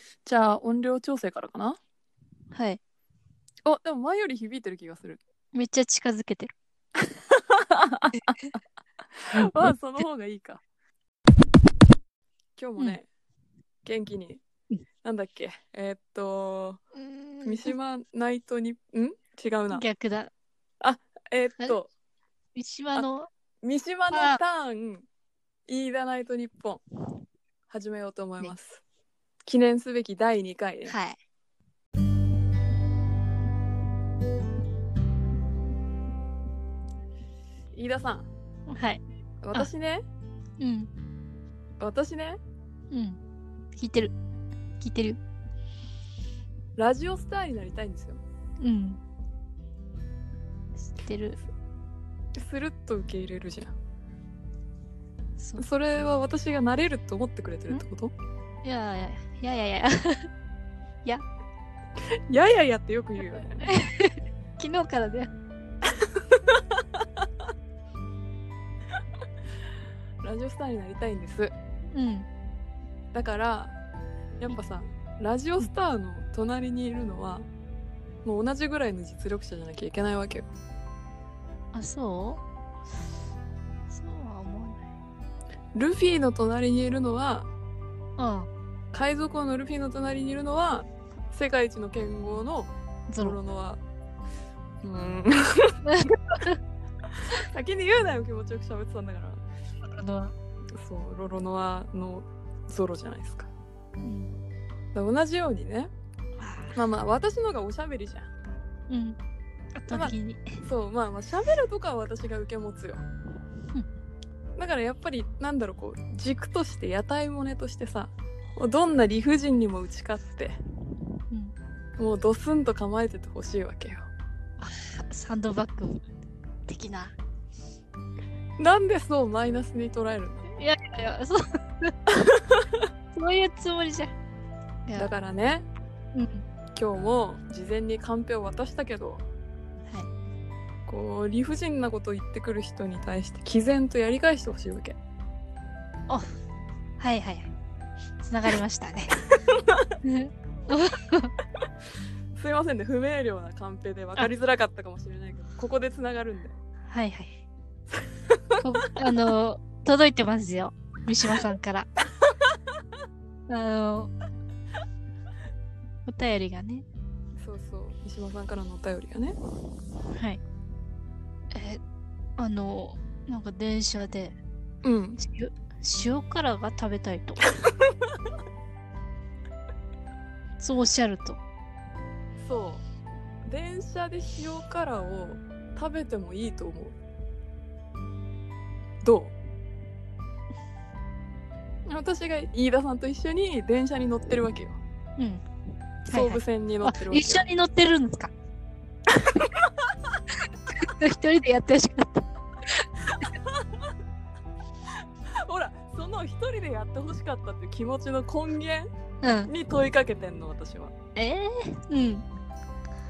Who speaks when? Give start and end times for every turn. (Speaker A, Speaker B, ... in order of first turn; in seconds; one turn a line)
Speaker A: 0.2-1.8
Speaker B: 2.5-2.8
Speaker A: 3.6-5.2
Speaker B: 5.5-6.5
Speaker A: 7.3-8.2
Speaker B: 8.1-8.4
Speaker A: 9.2-10.6
Speaker A: 12.6-13.1
Speaker A: 13.8-14.4
Speaker A: 15.0-16.8
Speaker B: 17.0-17.7
Speaker A: 17.4-19.9
Speaker B: 19.7-20.3
Speaker A: 20.8-21.9
Speaker B: 22.5-23.3
Speaker A: 23.6-25.0
Speaker B: 24.1-24.4
Speaker A: 25.7-26.8
Speaker A: 27.7-28.8
Speaker A: 29.4-30.9
Speaker B: 30.9-31.2
Speaker A: 37.7-38.3
Speaker B: 38.7-39.0
Speaker A: 39.4-40.0
Speaker B: 40.6-40.9
Speaker A: 41.8-42.4
Speaker B: 42.9-43.2
Speaker B: 43.7-44.1
Speaker B: 44.8-45.2
Speaker A: 46.8-48.2
Speaker B: 48.6-49.0
Speaker B: 50.8-51.4
Speaker A: 52.4-53.8
Speaker B: 55.4-55.6
Speaker A: 55.6-58.1
Speaker B: 58.6-60.3
Speaker A: 62.3-63.6
Speaker B: 63.6-65.3
Speaker A: 66.3-66.6
Speaker A: 70.2-71.5
Speaker B: 71.9-72.3
Speaker A: 73.1-73.7
Speaker A: 74.4-77.5
Speaker A: 78.2-80.5
Speaker B: 81.7-82.4
Speaker B: 83.9-84.9
Speaker A: 85.7-87.5
Speaker B: 88.2-88.5
Speaker A: 88.9-93.8
Speaker B: 93.1-93.4
Speaker A: 94.8-95.7
Speaker B: 95.8-96.6
Speaker A: 97.5-99.4
Speaker B: 99.8-100.3
Speaker A: 100.8-103.5
Speaker B: 104.0-104.3
Speaker A: 104.9-105.9
Speaker B: 106.4-106.8
Speaker A: 106.7-108.3
Speaker B: 108.9-109.2
Speaker B: 109.7-110.6
Speaker A: 109.9-113.0
Speaker A: 114.6-120.6
Speaker A: 122.0-124.1
Speaker B: 124.6-126.0
Speaker B: 126.7-127.1
Speaker A: 128.6-130.5
Speaker B: 130.5-131.9
Speaker A: 132.2-132.6
Speaker B: 133.1-134.1
Speaker A: 134.9-135.7
Speaker B: 136.1-136.4
Speaker A: 136.7-139.2
Speaker A: 140.9-145.0
Speaker B: 147.0-147.5
Speaker B: 148.2-149.3
Speaker B: 150.0-151.3
Speaker A: 152.3-156.6
Speaker B: 156.9-157.4
Speaker B: 158.6-161.9
Speaker B: 163.5-164.1
Speaker B: 166.1-166.8
Speaker A: 167.4-169.4
Speaker B: 170.1-170.4
Speaker B: 171.5-171.8
Speaker B: 172.4-174.4
Speaker A: 174.8-175.2
Speaker B: 175.2-177.4
Speaker B: 180.6-181.4
Speaker A: 182.4-182.8
Speaker A: 183.5-186.9
Speaker A: 189.0-189.3
Speaker A: 191.9-194.8
Speaker B: 195.2-195.4
Speaker B: 196.1-198.3
Speaker A: 196.1-197.4
Speaker A: 199.2-199.7
Speaker B: 200.7-202.2
Speaker A: 203.3-203.6
Speaker A: 205.4-208.9
Speaker B: 209.2-209.5
Speaker A: 209.4-210.9
Speaker B: 211.2-212.2